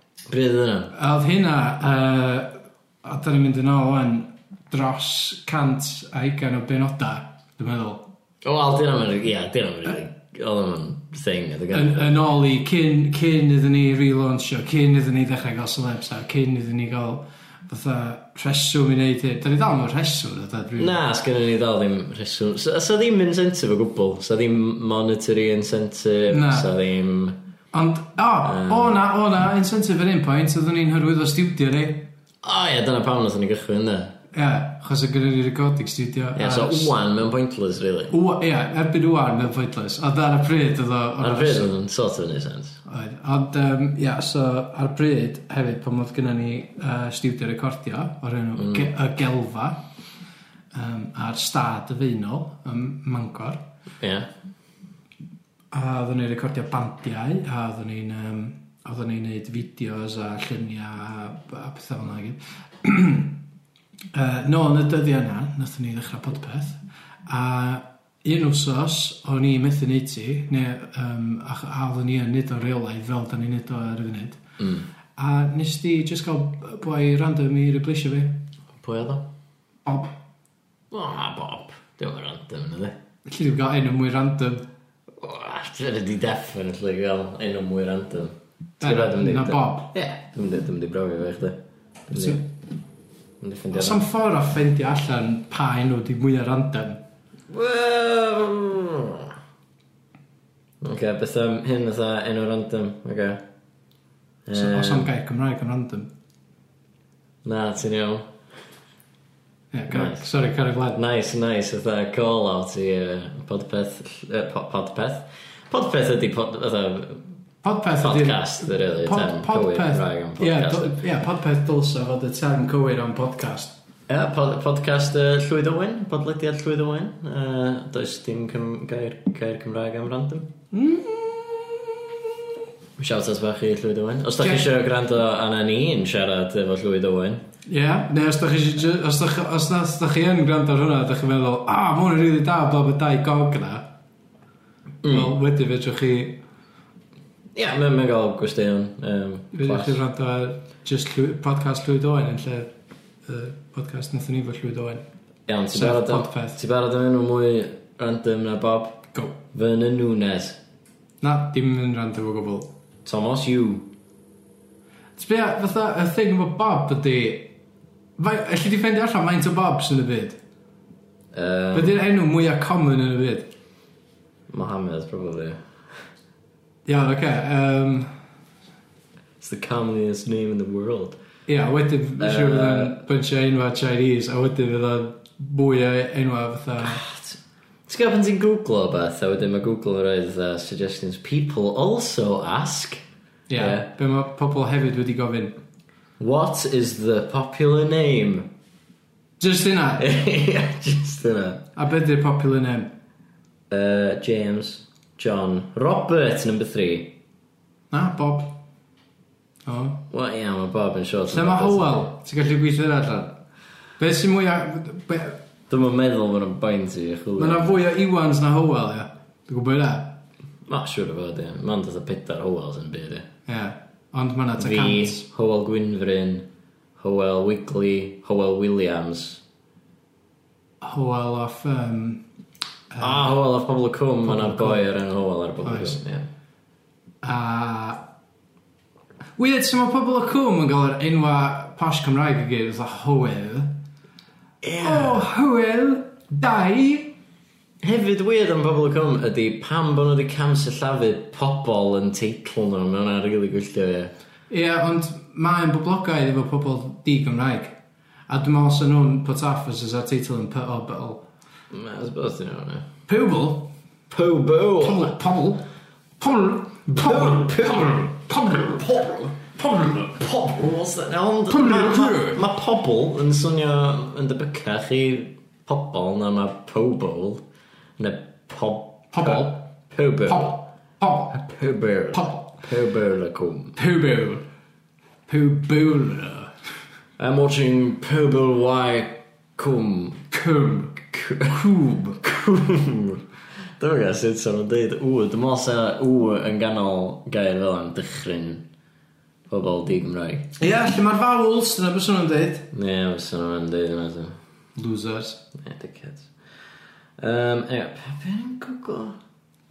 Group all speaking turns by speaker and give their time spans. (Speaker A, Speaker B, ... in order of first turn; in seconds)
Speaker A: 0.3-0.9, 8.4-12.1, 20.8-27.4, 28.4-29.0, 32.4-34.2, 36.4-38.1, 41.2-42.8, 48.6-48.9, 54.0-54.3, 74.6-74.9, 78.8-79.3, 80.9-83.0, 85.2-91.6, 92.1-92.5, 93.4-94.0, 97.5-99.3, 100.8-103.4, 104.5-105.1, 107.4-108.3, 109.9-110.3, 110.9-117.3, 118.0-121.0, 124.1-130.5, 133.0-137.4, 145.0-145.3, 147.6-150.0, 155.5-160.6, 163.1-163.9, 171.3-172.0, 174.5-175.7, 179.4-181.2, 182.2-183.0, 186.8-193.0, 193.6-193.9, 196.2-198.5, 200.0-201.7, 203.7-207.2, 210.1-212.1, 215.7-217.7, 220.7-223.3, 224.6-226.5, 227.0-229.4, 233.0-236.3, 244.6-245.3, 247.8-254.1, 261.7-262.9, 264.1-265.1, 266.9-268.7, 269.7-277.4, 278.0-280.6, 281.3-283.8, 287.2-290.3, 291.0-291.6, 292.2-293.2, 293.8-298.7, 299.5-300.5, 302.7-304.3, 305.6-306.3, 307.2-309.2
Speaker B: 0.9-8.0, 11.7-21.0, 26.3-26.7, 27.7-32.1, 34.3-36.9, 38.1-41.7, 42.9-49.8, 50.7-53.6, 55.7-63.4, 64.1-74.4, 75.2-78.4, 79.9-80.1, 83.3-84.7, 88.8-89.9, 92.1-92.4, 93.7-97.0, 104.5-106.1, 109.7-111.0, 117.6-123.8, 130.7-132.0, 137.7-143.9, 145.1-146.4, 149.5-152.7, 153.3-155.0, 155.7-156.6, 161.2-162.7, 165.2-167.5, 168.2-170.4, 171.7-173.5, 176.9-178.2, 181.5-187.0, 193.5-195.6, 199.4-200.1, 201.8-202.9, 207.9-208.6, 209.7-210.0, 211.3-213.4, 214.0-215.4, 217.4-220.2, 223.5-225.3, 230.8-232.2, 232.9-233.3, 234.2-234.8, 235.6-236.0, 237.2-238.0, 239.4-243.7, 244.8-247.2, 254.5-257.7, 258.3-261.2, 263.1-263.7, 264.8-265.7, 266.2-270.0, 271.5-272.4, 279.1-279.6, 280.3-281.4, 282.1-282.5, 283.8-284.5, 285.3-286.5, 290.3-292.2, 300.6-302.7, 304.8-305.4